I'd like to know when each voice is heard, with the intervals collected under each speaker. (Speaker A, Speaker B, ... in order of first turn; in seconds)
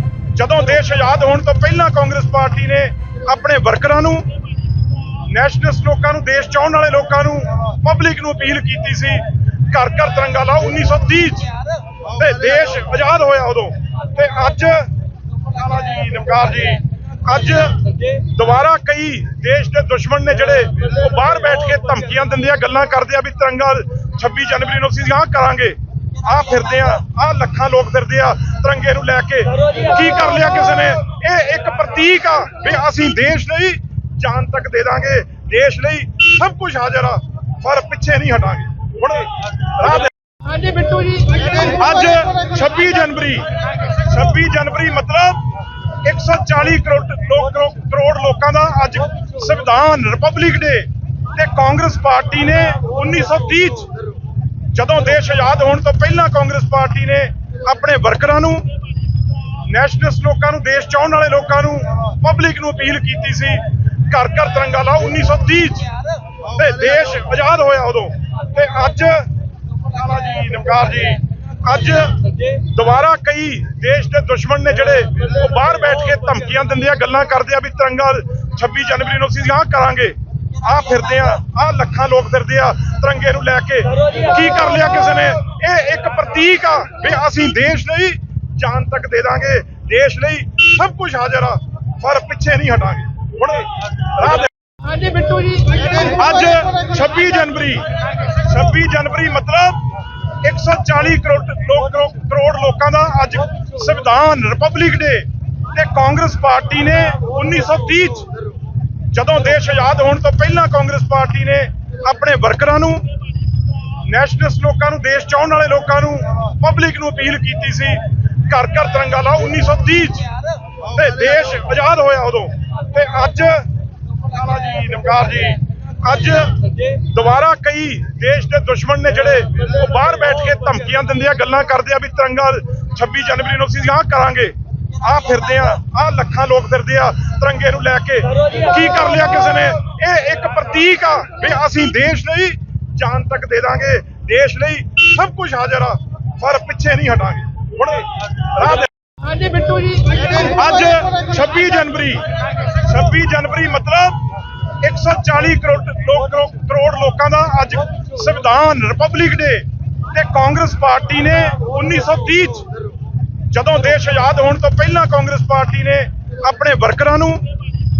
Speaker A: 0.3-4.3, 5.1-40.1, 41.5-45.4, 46.0-53.9, 54.7-58.7, 59.5-94.5, 95.9-99.8, 100.4-108.3, 109.1-113.1, 113.9-148.9, 150.4-154.2, 154.8-162.7, 163.5-167.5
Speaker B: 40.5-41.5, 94.8-96.0, 149.2-150.4